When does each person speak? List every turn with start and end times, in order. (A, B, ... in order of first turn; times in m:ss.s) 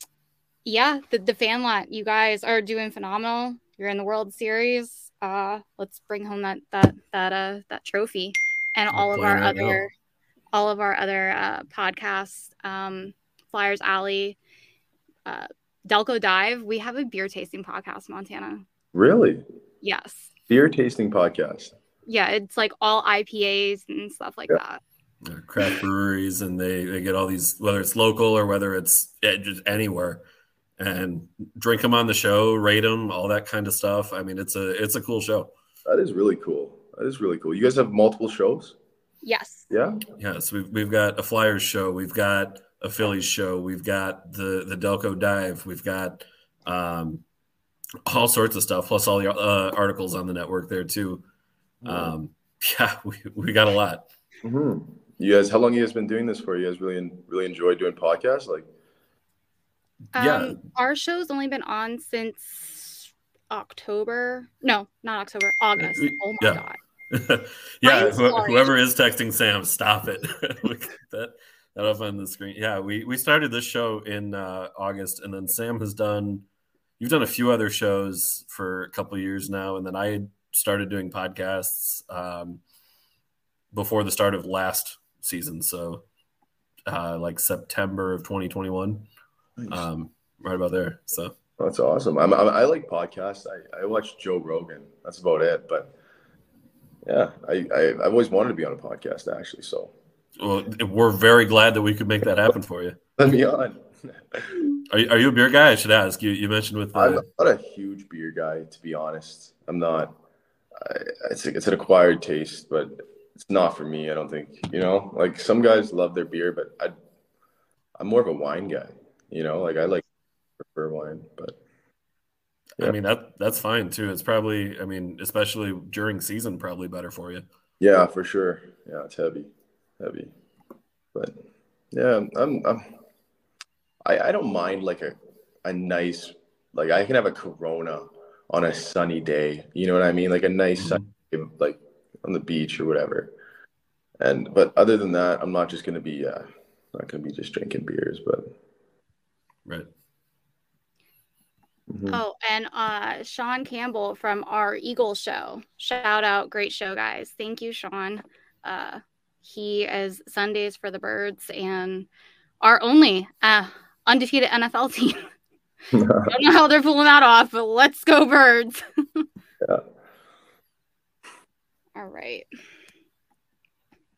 0:00.6-0:09.9 A
0:08.9-0:09.8 B
0:10.5-0:14.4 A
0:15.2-0:18.6 A
0:18.9-0:19.4 C
0:19.8-0:20.3 A
0:20.5-0:21.7 C
0:22.0-0:24.8 A
0:25.2-0:30.2 B
0:30.8-0:35.5 B
0:35.8-0:38.8 C
0:39.2-0:39.7 A
0:39.7-0:40.0 C
0:40.2-0:47.2 B
0:48.0-0:51.2 B
0:51.8-0:54.0 B
0:51.8-0:52.1 C
0:54.4-0:58.7 C
1:00.1-1:06.8 A
1:00.1-1:00.6 B
1:05.8-1:16.4 B
1:07.8-1:08.7 A
1:17.0-1:22.6 B
1:23.7-1:26.0 B
1:26.9-1:29.0 B
1:29.6-1:29.8 C
1:29.7-1:31.4 B
1:31.6-1:35.9 C
1:37.0-1:39.9 C
1:40.4-1:43.0 B
1:43.2-1:44.5 C
1:44.9-1:47.2 B
1:46.9-1:50.1 C
1:50.7-1:56.9 C
1:58.0-2:00.0 C
2:00.6-2:01.6 C
2:02.8-2:07.4 B
2:07.8-2:10.3 C
2:11.1-2:11.4 C
2:11.9-2:12.9 C
2:14.0-2:23.3 C
2:20.8-2:21.1 B
2:24.2-2:28.5 C
2:31.9-2:32.2 C
2:32.1-2:42.1 A
2:42.6-2:45.3 A
2:45.9-2:46.3 C
2:46.2-2:49.2 A
2:52.0-2:52.5 A